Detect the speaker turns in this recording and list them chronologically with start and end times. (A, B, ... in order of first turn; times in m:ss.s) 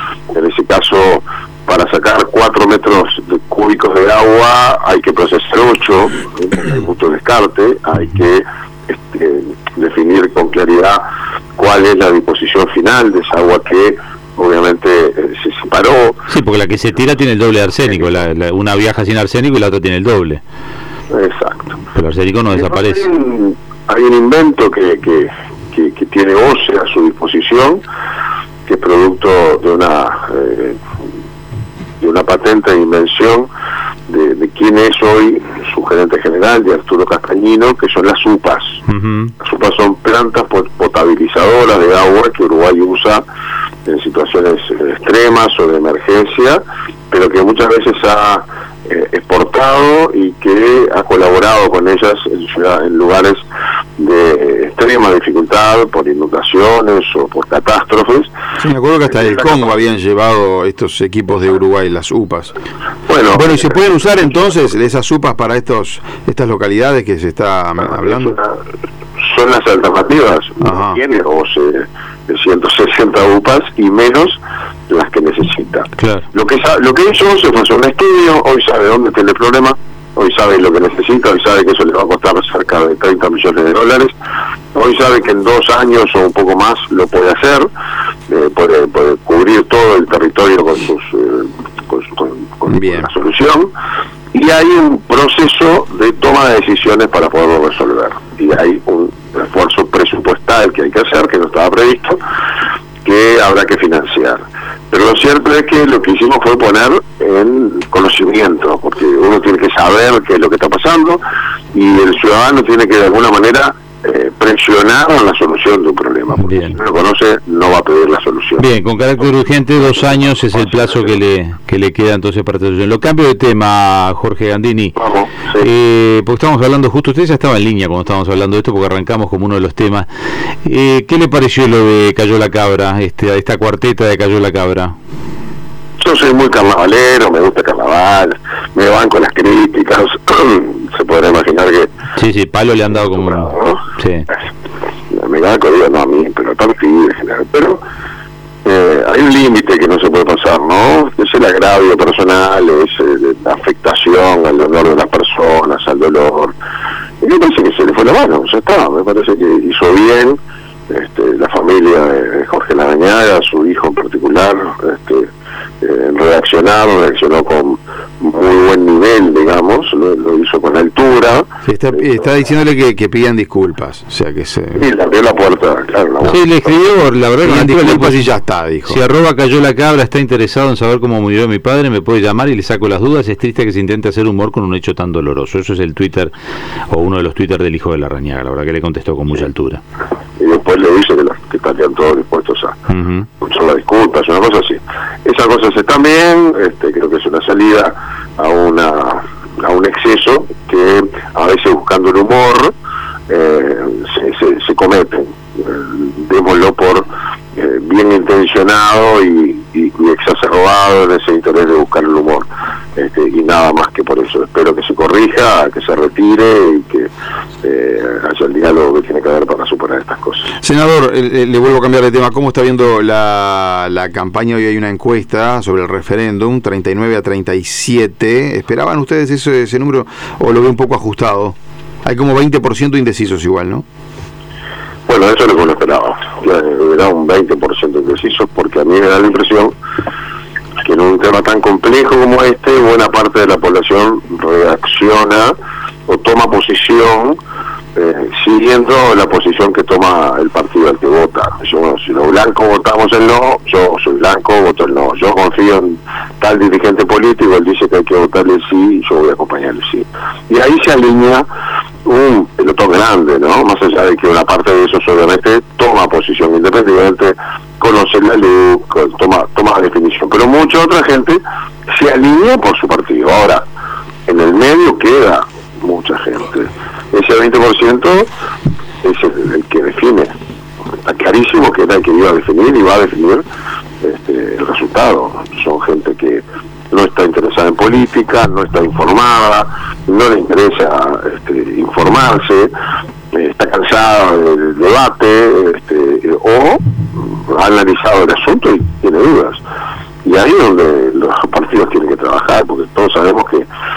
0:00.3-0:11.0 A
0:11.6-0:16.2 A
0:16.3-0:20.4 B
0:21.1-0:21.8 A
0:21.9-0:23.1 B
0:22.5-0:27.8 A
0:28.6-0:30.8 A
0:32.0-0:33.5 A
0:34.1-0:38.8 A
0:38.9-0:39.3 B
0:39.4-0:43.2 A
0:43.8-0:53.4 A
0:54.0-0:58.3 A
0:58.6-1:02.6 C
1:03.1-1:03.8 A
1:03.3-1:08.4 C
1:07.8-1:08.6 A
1:09.2-1:14.4 A
1:10.6-1:11.0 C
1:14.9-1:24.1 A
1:16.0-1:16.3 B
1:24.7-1:27.7 A
1:28.3-1:33.7 A
1:32.7-1:33.1 C
1:34.3-1:42.2 A
1:43.0-1:44.4 A
1:44.9-1:51.2 A
1:51.7-1:58.6 A
1:56.4-1:56.8 B
1:58.6-2:05.0 B
2:00.5-2:01.0 A
2:05.0-2:05.7 A
2:05.6-2:10.1 B
2:10.6-2:14.9 B
2:16.0-2:21.9 A
2:22.2-2:24.3 B
2:23.1-2:23.8 A
2:25.1-2:27.8 A
2:28.6-2:36.5 A
2:37.2-2:40.4 A
2:40.9-2:45.3 A
2:45.8-2:51.5 A
2:51.6-2:54.8 C
2:54.7-2:56.7 A
2:56.2-2:58.3 B
2:57.4-2:59.0 C
2:58.8-3:06.3 B
3:06.9-3:09.8 B
3:10.4-3:12.8 A
3:12.9-3:13.3 B
3:13.4-3:22.7 A
3:23.3-3:37.1 A
3:37.6-3:40.5 A
3:40.6-3:53.8 C
3:55.1-3:59.7 A
4:00.8-4:05.5 A
4:06.1-4:07.4 A
4:07.9-4:21.4 A
4:22.0-4:33.6 A
4:34.3-4:38.3 A
4:39.0-4:40.3 A
4:41.0-4:43.4 A
4:44.0-4:52.7 A
4:53.3-4:56.8 A
4:57.4-4:59.6 A
5:00.2-5:03.6 A